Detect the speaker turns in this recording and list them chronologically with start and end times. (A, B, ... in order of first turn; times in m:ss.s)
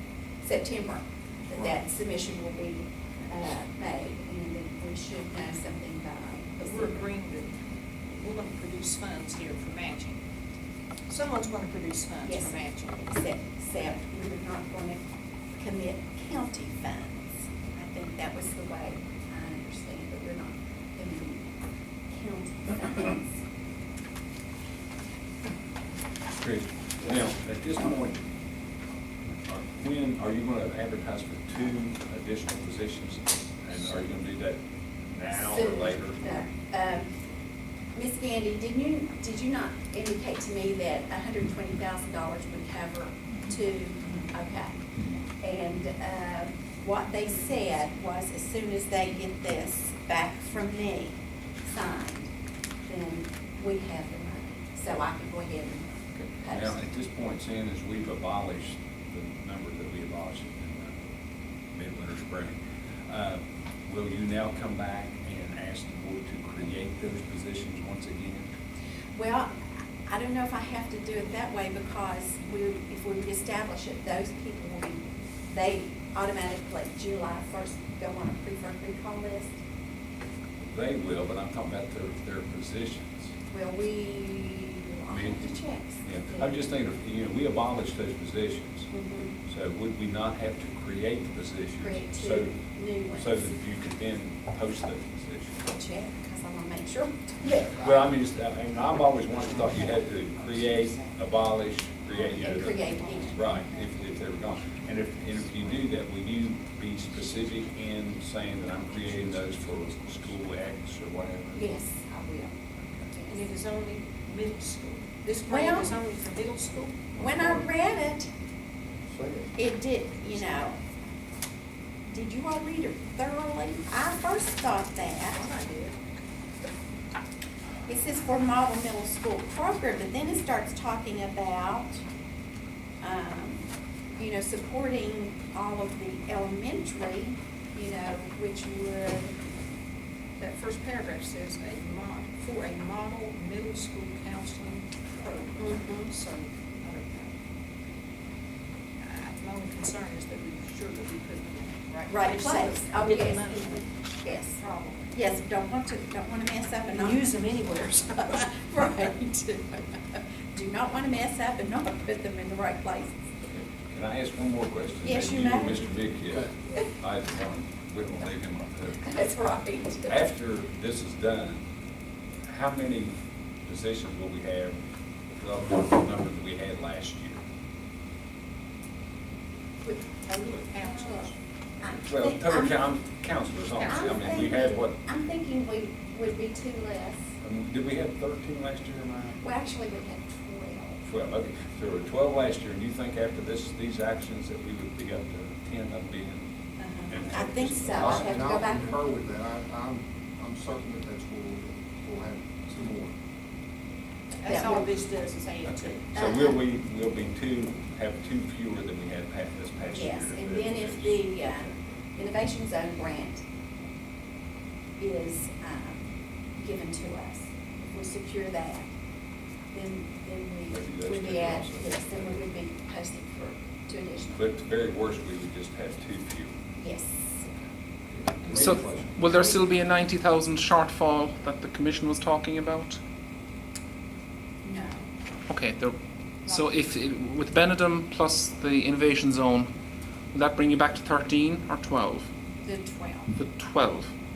0:00.4-0:07.0 A
0:06.6-0:07.6 B
0:08.1-0:10.2 B
0:11.1-0:13.0 B
0:12.2-0:15.0 A
0:15.6-0:21.5 A
0:22.1-0:23.4 A
0:26.4-0:28.2 C
0:29.5-0:36.2 C
0:35.3-0:37.1 A
0:37.9-0:44.8 A
0:45.4-0:52.3 A
0:52.9-0:56.8 A
0:56.2-1:01.1 C
1:01.7-1:08.5 C
1:09.1-1:19.6 A
1:20.7-1:23.3 C
1:23.5-1:26.6 A
1:25.1-1:28.9 C
1:28.9-1:29.4 A
1:29.4-1:32.5 C
1:31.8-1:33.5 A
1:33.2-1:35.5 C
1:35.6-1:37.9 A
1:37.8-1:51.6 C
1:42.3-1:43.4 A
1:51.5-1:52.6 A
1:52.8-1:53.0 C
1:53.1-1:53.5 A
1:53.3-1:57.0 B
1:55.4-1:56.0 A
1:57.1-1:58.3 A
1:59.1-1:59.5 D
1:59.6-2:00.8 A
2:02.0-2:05.4 A
2:05.3-2:06.1 B
2:07.8-2:12.0 A
2:13.0-2:19.3 A
2:20.4-2:27.3 B
2:25.6-2:26.1 A
2:29.0-2:35.1 B
2:32.1-2:37.3 A
2:36.9-2:38.5 B
2:38.2-2:43.2 A
2:43.5-2:49.2 C
2:45.0-2:45.9 A
2:49.0-2:50.1 A
2:50.0-2:51.6 C
2:52.4-2:54.8 C
2:55.4-2:57.4 C
2:59.8-3:02.8 A
3:00.5-3:01.4 B
3:02.0-3:05.0 C
3:03.8-3:04.1 B
3:03.8-3:07.4 A
3:07.4-3:09.4 C
3:09.4-3:11.0 A
3:11.0-3:16.5 C
3:16.8-3:19.1 A
3:17.1-3:18.4 C
3:17.9-3:23.1 D
3:24.4-3:26.0 B
3:24.4-3:24.9 A
3:25.6-3:31.7 C
3:26.1-3:26.6 A
3:29.9-3:33.4 A
3:35.0-3:38.9 A
3:39.7-3:44.4 A
3:40.7-3:42.5 C
3:44.3-3:46.5 C
3:46.8-3:47.5 A
3:48.1-3:49.2 C
3:48.5-3:53.0 E
3:49.3-3:49.6 A
3:54.6-3:55.1 A
3:55.5-3:59.7 E
4:00.3-4:02.3 E
4:02.6-4:03.3 A
4:03.4-4:04.1 E